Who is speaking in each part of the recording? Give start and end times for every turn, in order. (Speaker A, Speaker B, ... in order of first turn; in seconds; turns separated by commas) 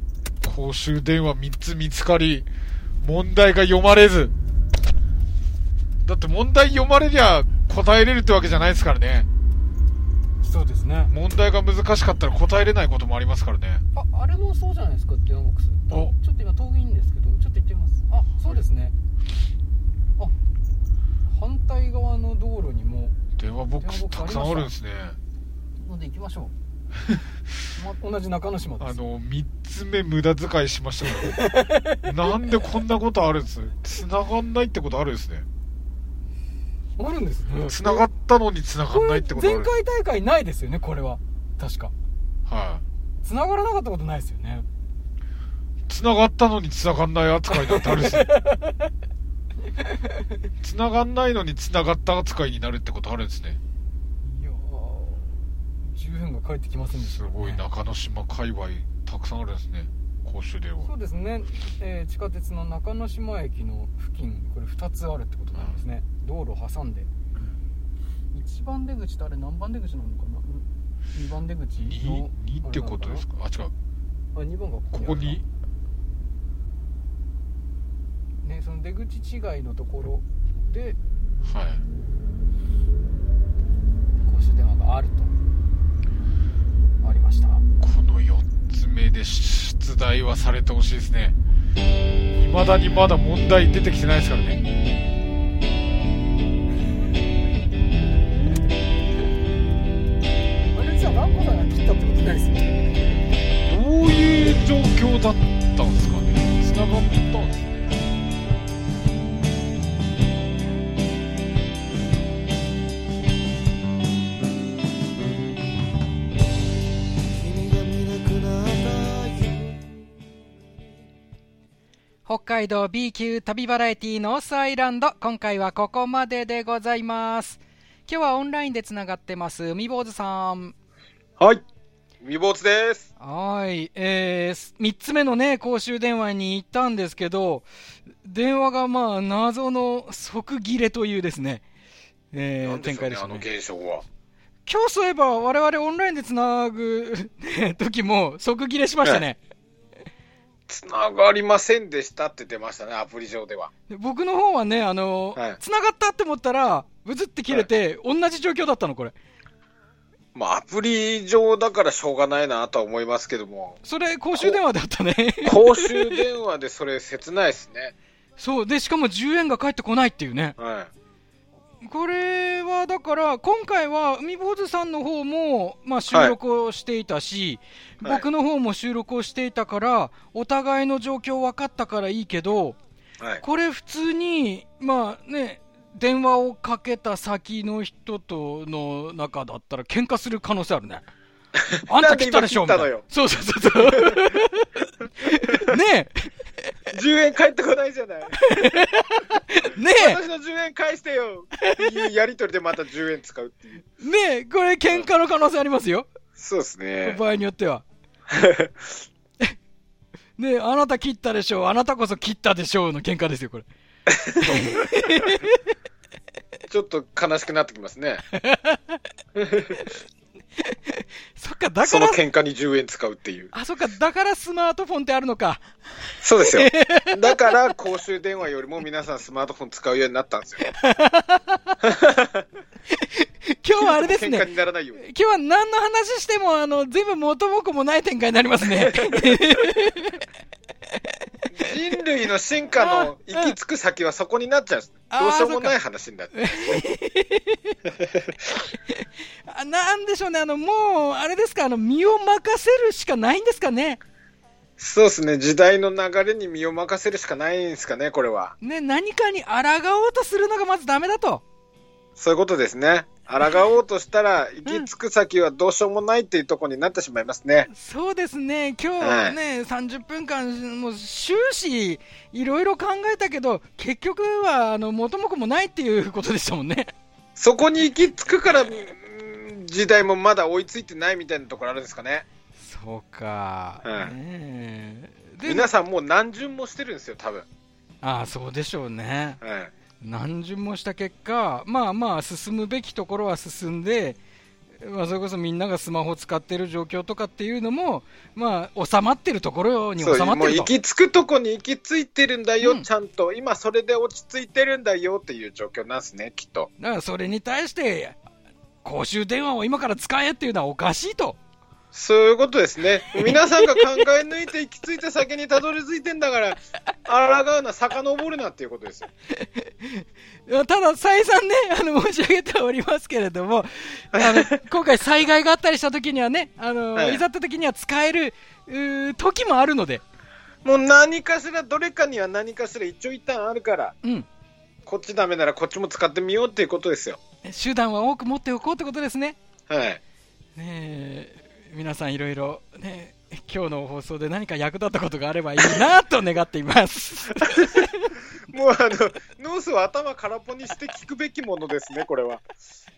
Speaker A: 0.4-2.5, Speaker A: 3.0-4.3, Speaker A: 6.0-9.3, Speaker B: 10.4-11.1, Speaker A: 11.1-13.8, Speaker B: 13.9-18.9, Speaker B: 21.3-23.1, Speaker A: 23.4-25.2, Speaker B: 23.8-24.7, Speaker B: 25.8-26.5, Speaker B: 27.8-29.0, Speaker A: 28.8-31.4, Speaker B: 31.1-32.5, Speaker A: 32.0-35.4, Speaker B: 37.0-38.0, Speaker A: 37.7-39.7, Speaker B: 38.9-41.9, Speaker A: 42.5-42.8, Speaker B: 43.2-44.6, Speaker A: 45.9-48.3, Speaker B: 47.5-48.9, Speaker B: 49.8-50.1, Speaker A: 50.6-53.6, Speaker B: 54.2-57.6, Speaker A: 57.0-60.9, Speaker B: 60.8-67.1, Speaker B: 68.3-73.2, Speaker A: 71.8-73.7, Speaker B: 74.3-75.4, Speaker A: 74.9-75.4, Speaker B: 78.4-81.0, Speaker A: 81.4-81.8, Speaker B: 84.2-85.3, Speaker B: 87.0-87.6, Speaker A: 87.8-91.3, Speaker A: 92.3-94.6, Speaker B: 100.7-103.2, Speaker A: 103.7-107.9, Speaker C: 122.2-130.7, Speaker D: 131.4-131.6, Speaker D: 132.2-133.1, Speaker C: 133.2-137.7, Speaker C: 138.2-141.6, Speaker C: 142.3-143.5, Speaker D: 142.6-144.0, Speaker C: 144.7-149.4, Speaker D: 150.7-153.7, Speaker C: 153.9-159.1, Speaker D: 160.3-163.8, Speaker C: 163.8-166.2, Speaker D: 165.4-167.9, Speaker C: 168.4-170.6, Speaker D: 170.6-170.9, Speaker C: 171.8-182.8, Speaker C: 183.4-191.1, Speaker D: 191.6-193.0, Speaker C: 191.9-196.3, Speaker D: 193.7-194.3, Speaker D: 196.9-198.5, Speaker C: 198.4-200.2, Speaker D: 199.9-203.8, Speaker C: 204.0-206.1, Speaker D: 206.3-207.2, Speaker C: 207.0-207.8, Speaker D: 208.3-208.9, Speaker C: 210.4-213.7, Speaker D: 214.1-214.9, Speaker C: 214.4-215.6, Speaker D: 216.7-218.2, Speaker C: 218.4-219.0, Speaker D: 219.3-219.8, Speaker C: 220.6-222.2, Speaker D: 221.8-223.5, Speaker C: 223.5-225.6, Speaker D: 226.2-230.6, Speaker C: 226.4-227.5, Speaker C: 230.7-231.8, Speaker D: 231.8-232.4, Speaker C: 232.9-240.2, Speaker D: 233.8-235.0, Speaker D: 238.6-239.4, Speaker D: 241.5-246.8, Speaker C: 242.7-243.5, Speaker C: 245.1-245.8, Speaker C: 246.3-247.8, Speaker D: 247.9-248.3, Speaker C: 248.9-254.0, Speaker D: 254.8-258.5, Speaker C: 258.6-261.4, Speaker D: 262.2-267.7, Speaker C: 267.7-276.9, Speaker D: 269.0-269.4, Speaker D: 277.4-282.2, Speaker C: 282.6-285.7, Speaker D: 283.8-284.1, Speaker D: 285.4-287.4, Speaker C: 288.0-289.4, Speaker D: 289.4-289.7, Speaker C: 290.0-294.2, Speaker C: 294.8-300.7, Speaker D: 300.0-306.7, Speaker C: 302.6-302.9, Speaker C: 306.8-308.2, Speaker C: 308.8-311.4, Speaker D: 311.9-319.1, Speaker C: 313.2-313.6, Speaker C: 319.3-330.0, Speaker D: 324.1-324.6, Speaker D: 326.9-327.2, Speaker D: 330.6-333.9, Speaker D: 334.9-337.2, Speaker C: 337.4-339.4, Speaker D: 339.7-340.0, Speaker C: 340.6-348.1, Speaker D: 347.4-347.8, Speaker D: 348.5-352.5